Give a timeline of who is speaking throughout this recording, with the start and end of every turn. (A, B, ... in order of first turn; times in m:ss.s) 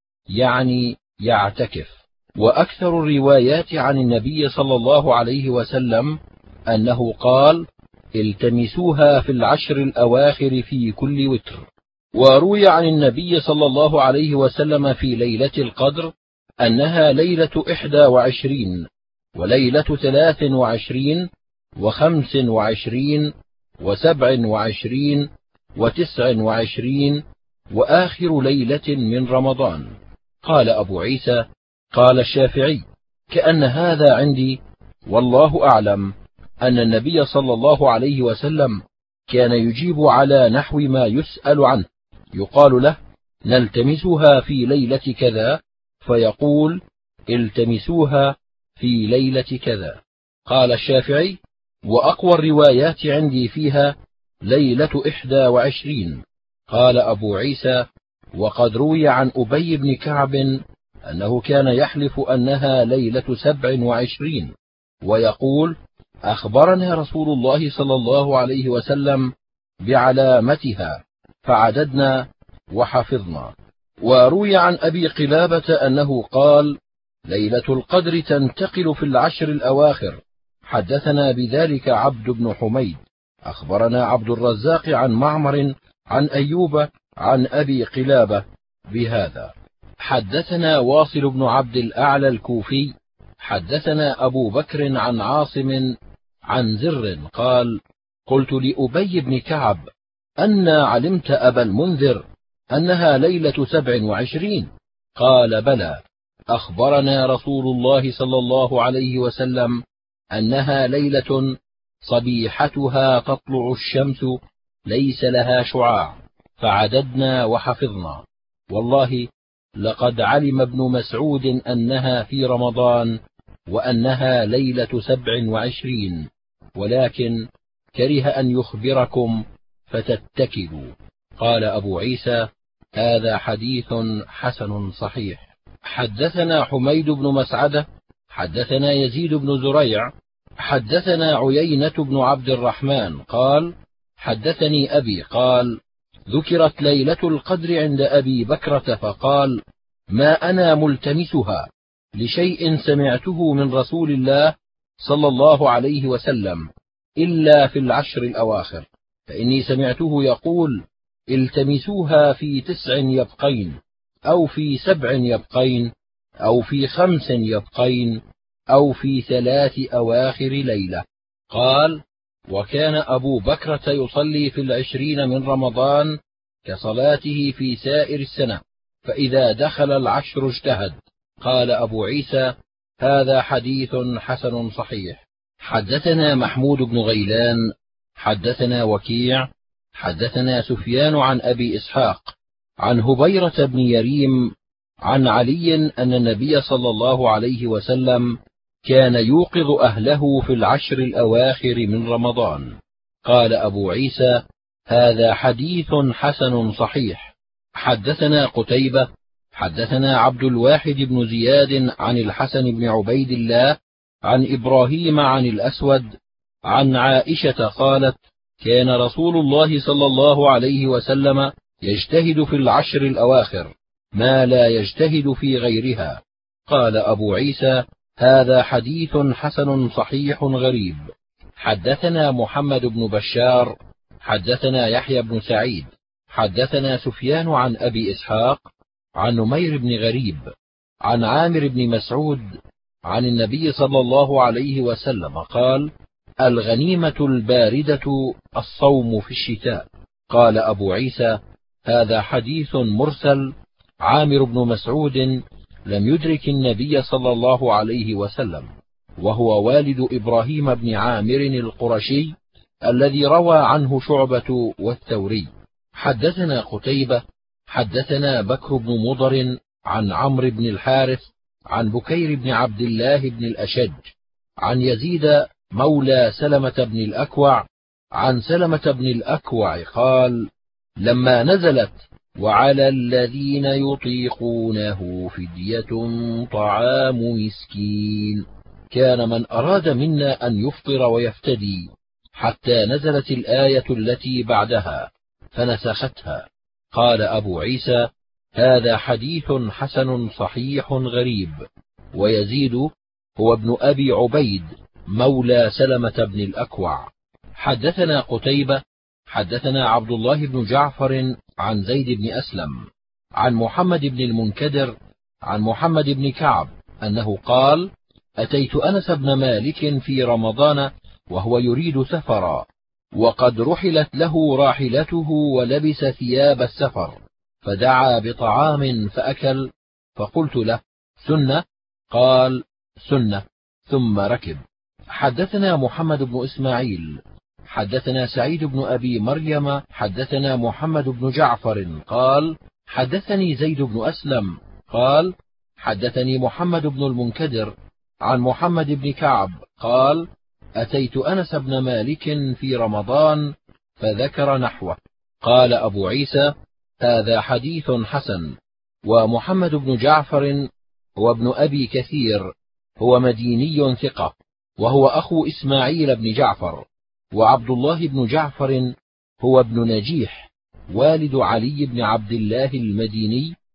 0:00.3-0:06.2 A
0:06.7-0:07.6 A
0:08.2-0:21.3 A
0:21.8-0:29.9 A
0:30.4-0:57.8 A
0:58.4-1:04.5 A
1:05.0-1:05.8 A
1:06.3-1:09.3 A
1:09.8-1:35.9 A
1:36.5-1:39.8 A
1:40.4-1:49.8 A
1:50.3-1:51.5 A
1:52.0-2:03.2 A
2:03.7-2:07.4 A
2:07.9-2:25.8 A
2:26.3-2:36.7 A
2:37.2-2:45.9 A
2:46.4-2:48.2 A
2:48.7-3:07.6 A
3:08.2-3:14.5 A
3:15.0-3:18.3 A
3:18.8-3:22.7 A
3:23.2-3:36.1 A
3:36.7-3:51.0 A
3:51.6-3:58.6 A
3:59.2-4:00.5 A
4:01.0-4:02.5 A
4:03.1-4:05.9 A
4:06.4-4:13.5 A
4:14.0-4:18.7 A
4:19.2-4:22.3 A
4:22.8-4:34.1 A
4:34.6-4:37.6 A
4:38.2-4:40.5 A
4:41.0-5:01.6 A
5:02.1-5:12.8 A
5:13.4-5:14.9 A
5:15.4-5:22.7 A
5:23.2-5:37.2 A
5:37.7-5:47.7 A
5:48.2-5:50.3 A
5:50.8-5:56.5 A
5:57.0-5:58.5 A
5:59.1-6:00.7 A
6:01.2-6:13.5 A